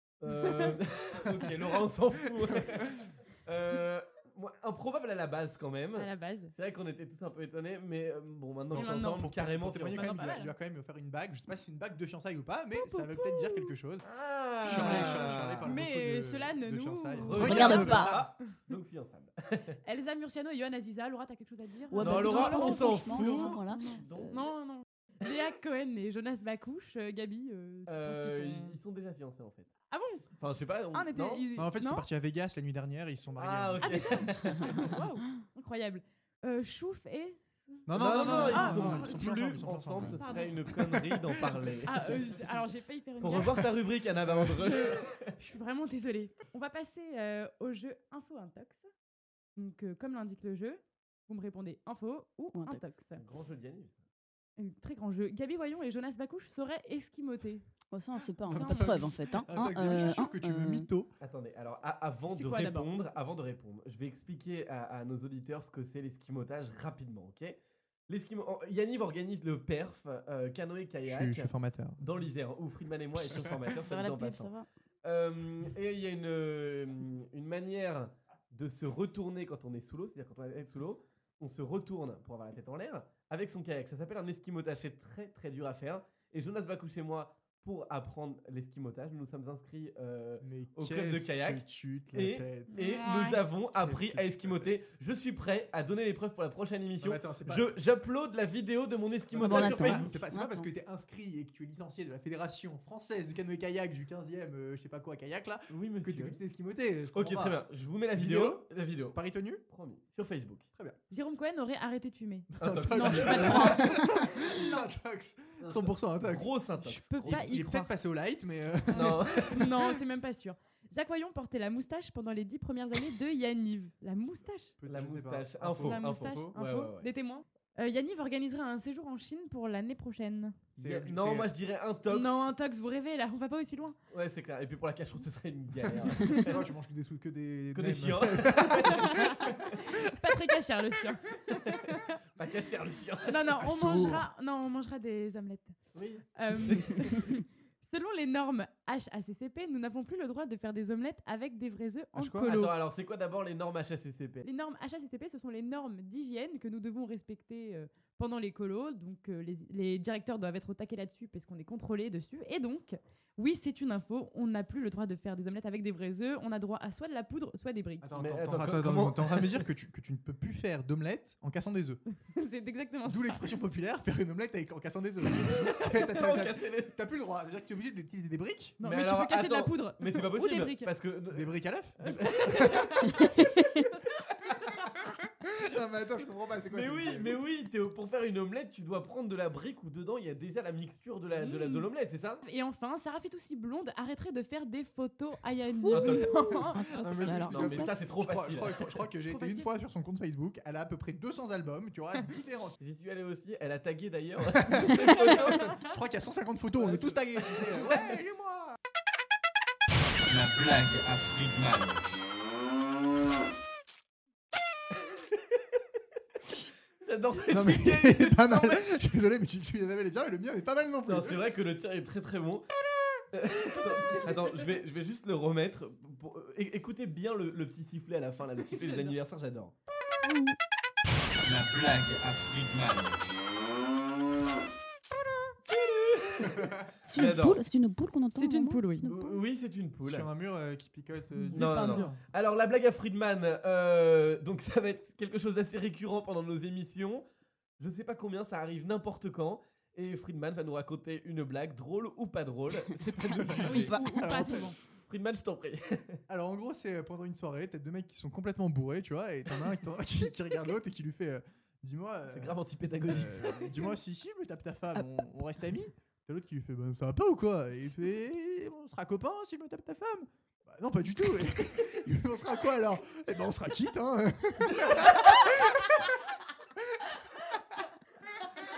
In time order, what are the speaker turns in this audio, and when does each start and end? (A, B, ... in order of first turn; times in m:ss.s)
0:00.2-0:10.3 A
0:00.3-0:00.7 B
0:06.0-0:06.5 B
0:08.7-0:14.1 C
0:08.7-0:09.3 B
0:09.8-0:10.5 B
0:12.8-0:13.7 B
0:14.0-0:15.7 A
0:14.6-0:18.2 C
0:14.7-0:18.2 B
0:17.2-0:19.8 A
0:17.4-0:18.2 D
0:19.8-0:28.8 B
0:21.9-0:24.3 D
0:21.9-0:24.5 A
0:27.9-0:29.7 A
0:29.9-0:30.2 B
0:30.4-0:31.4 A
0:30.9-0:32.0 B
0:31.6-0:34.2 C
0:33.4-0:34.9 A
0:33.8-0:39.3 B
0:37.8-0:40.2 C
0:37.9-0:42.6 A
0:40.1-0:40.6 B
0:41.8-0:43.6 B
0:43.2-0:45.3 A
0:44.3-0:44.5 C
0:44.6-0:48.9 B
0:49.6-0:53.2 B
0:52.5-0:52.8 D
0:53.2-0:54.0 A
0:54.6-0:57.6 B
0:57.9-1:00.9 D
0:58.5-0:58.9 B
0:58.5-1:01.1 C
1:01.2-1:07.6 A
1:02.3-1:02.9 B
1:08.1-1:40.2 A
1:11.0-1:12.0 C
1:13.8-1:14.6 D
1:30.4-1:32.7 C
1:32.7-1:33.4 B
1:33.7-1:34.8 C
1:37.0-1:37.8 C
1:39.3-1:47.6 C
1:39.4-1:40.7 D
1:45.7-1:46.4 A
1:47.1-1:49.2 A
1:48.1-1:49.6 C
1:49.7-1:50.7 A
1:51.1-1:54.9 B
1:52.6-1:56.5 C
1:52.6-1:53.8 A
1:55.6-1:57.4 A
1:56.8-1:57.9 B
1:57.3-1:59.7 C
1:58.9-2:04.7 B
1:58.9-1:59.6 A
2:04.8-2:06.5 C
2:04.8-2:07.1 A
2:05.8-2:10.6 B
2:10.8-2:11.5 C
2:10.8-2:12.5 A
2:12.1-2:14.0 B
2:14.1-2:16.6 A
2:16.3-2:19.6 C
2:17.7-2:19.1 A
2:18.8-2:22.1 B
2:22.4-2:23.6 A
2:23.2-2:25.7 B
2:23.6-2:24.2 C
2:25.9-2:27.3 A
2:26.4-2:32.7 B
2:32.1-2:32.5 C
2:32.4-2:34.4 A
2:34.4-2:48.1 B
2:48.0-2:52.0 C
2:48.1-2:49.7 A
2:52.3-2:53.4 B
2:53.0-2:58.8 C
2:55.4-2:57.0 A
2:58.8-3:00.9 B
2:58.8-3:02.9 A
3:01.3-3:02.9 C
3:05.4-3:07.4 C
3:06.7-3:12.4 A
3:11.4-3:11.8 B
3:12.4-3:17.5 B
3:15.9-3:16.6 A
3:16.0-3:17.9 D
3:16.9-3:22.8 C
3:17.4-3:18.8 A
3:19.3-3:19.7 B
3:22.8-3:25.8 A
3:24.5-3:28.8 C
3:26.8-3:27.8 A
3:30.2-3:32.1 E
3:37.0-3:38.9 A
3:37.4-3:41.4 C
3:41.0-3:42.6 A
3:43.3-3:49.7 A
3:50.2-3:50.5 D
3:51.4-3:53.3 E
3:55.7-3:57.6 A
3:57.1-3:59.3 D
3:58.3-3:59.1 B
3:59.0-4:00.3 A
4:00.0-4:02.2 C
4:01.4-4:02.1 B
4:01.5-4:07.2 A
4:07.8-4:14.0 A
4:13.3-4:14.7 C
4:13.5-4:14.8 B
4:15.1-4:16.2 A
4:16.3-4:36.2 C
4:22.3-4:23.9 A